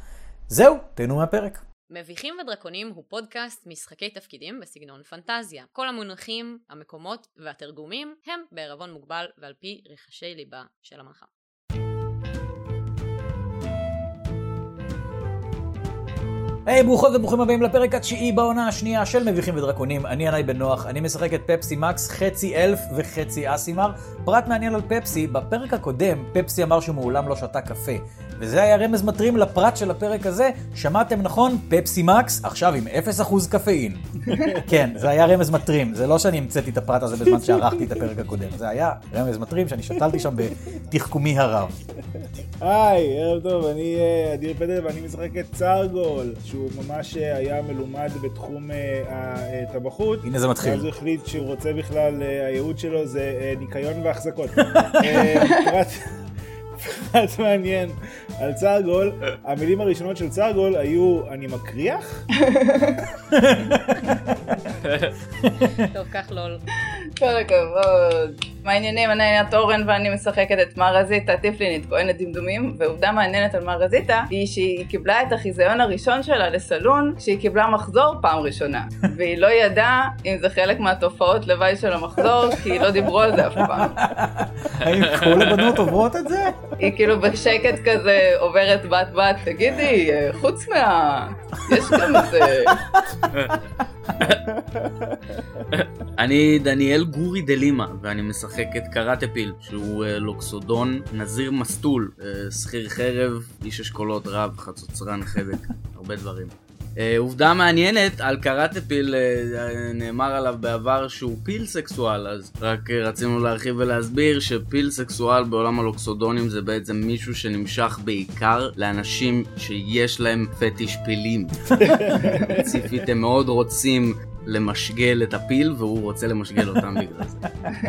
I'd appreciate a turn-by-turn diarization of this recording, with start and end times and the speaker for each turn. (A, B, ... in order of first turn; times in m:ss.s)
0:00.5-0:01.6 A
0:01.9-0:11.3 B
0:16.7-0:34.0 A
0:34.3-0:34.6 C
0:34.6-0:41.8 A
0:37.3-0:37.9 C
0:40.0-0:40.5 C
0:42.2-0:56.0 C
0:50.2-0:50.9 A
0:56.8-1:02.2 C
1:02.4-1:03.1 D
1:03.3-1:04.6 A
1:04.8-1:05.1 E
1:05.6-1:06.6 B
1:05.6-1:05.8 A
1:07.2-1:24.0 D
1:23.6-1:26.6 A
1:24.8-1:25.7 E
1:26.8-1:32.8 D
1:31.7-1:32.2 A
1:32.7-1:33.3 A
1:33.3-1:33.6 E
1:34.3-1:35.7 C
1:35.7-2:01.8 E
2:01.8-2:02.7 C
2:02.6-2:07.4 E